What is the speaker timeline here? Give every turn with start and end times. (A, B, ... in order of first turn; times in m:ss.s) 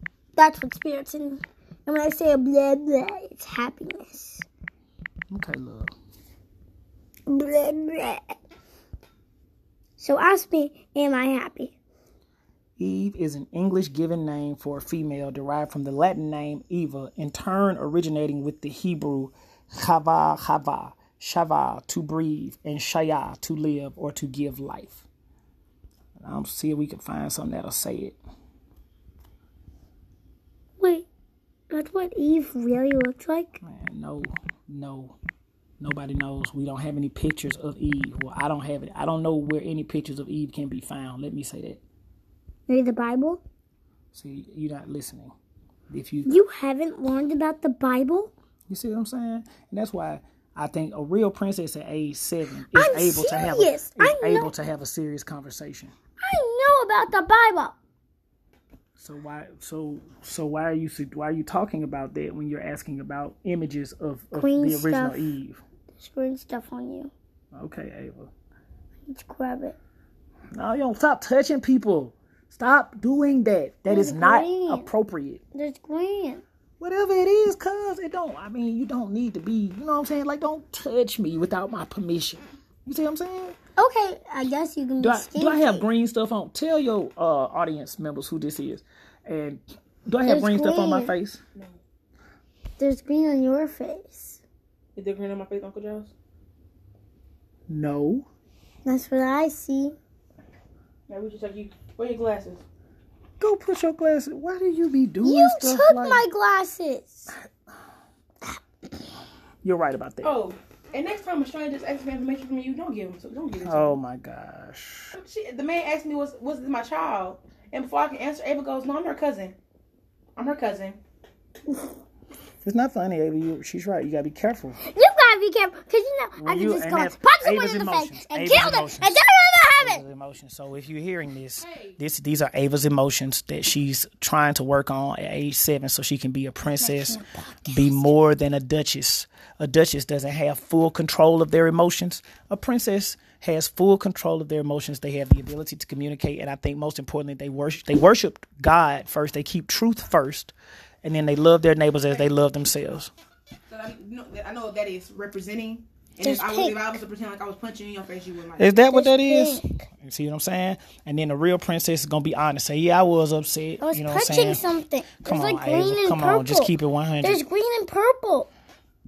0:00.4-0:04.4 A
0:05.3-0:05.9 B
0:07.3-0:08.4 A
0:10.0-0:11.7 A
0:12.8-0:25.0 B
0:26.2-0:28.2 B
0:30.8-0:31.0 A
0:31.7-0:33.6 A
0:33.6-0:35.2 B
0:35.8-0:41.8 B
0:42.7-0:43.4 A
0:44.1-0:45.3 B
0:45.9-0:46.4 B
0:46.2-0:48.3 A
0:48.7-0:55.9 B
0:52.7-0:54.5 A
0:56.2-0:57.7 A
0:59.0-1:05.6 B
1:04.3-1:05.3 A
1:06.0-1:07.1 A
1:07.5-1:08.3 B
1:09.1-1:09.8 A
1:10.5-1:15.4 B
1:13.9-1:14.9 A
1:15.5-1:16.4 A
1:16.8-1:23.6 B
1:23.8-1:25.8 A
1:25.0-1:31.4 B
1:30.3-1:31.1 A
1:32.8-1:34.4 A
1:35.0-1:36.1 C
1:37.7-1:38.3 B
1:38.8-1:40.0 A
1:41.1-1:42.6 C
1:43.4-1:46.2 B
1:45.2-1:47.3 A
1:49.6-1:50.4 B
1:50.2-1:54.0 C
1:53.6-1:55.2 B
1:55.2-1:59.6 C
2:00.4-2:01.0 C
2:02.6-2:04.8 B
2:04.8-2:10.0 A
2:06.4-2:09.2 B
2:09.8-2:33.1 B
2:11.6-2:12.0 C
2:16.8-2:18.1 A
2:33.7-2:38.8 C
2:36.2-2:37.0 A
2:38.6-2:44.6 B
2:38.8-2:39.8 A
2:43.8-2:48.5 A
2:45.2-2:47.4 B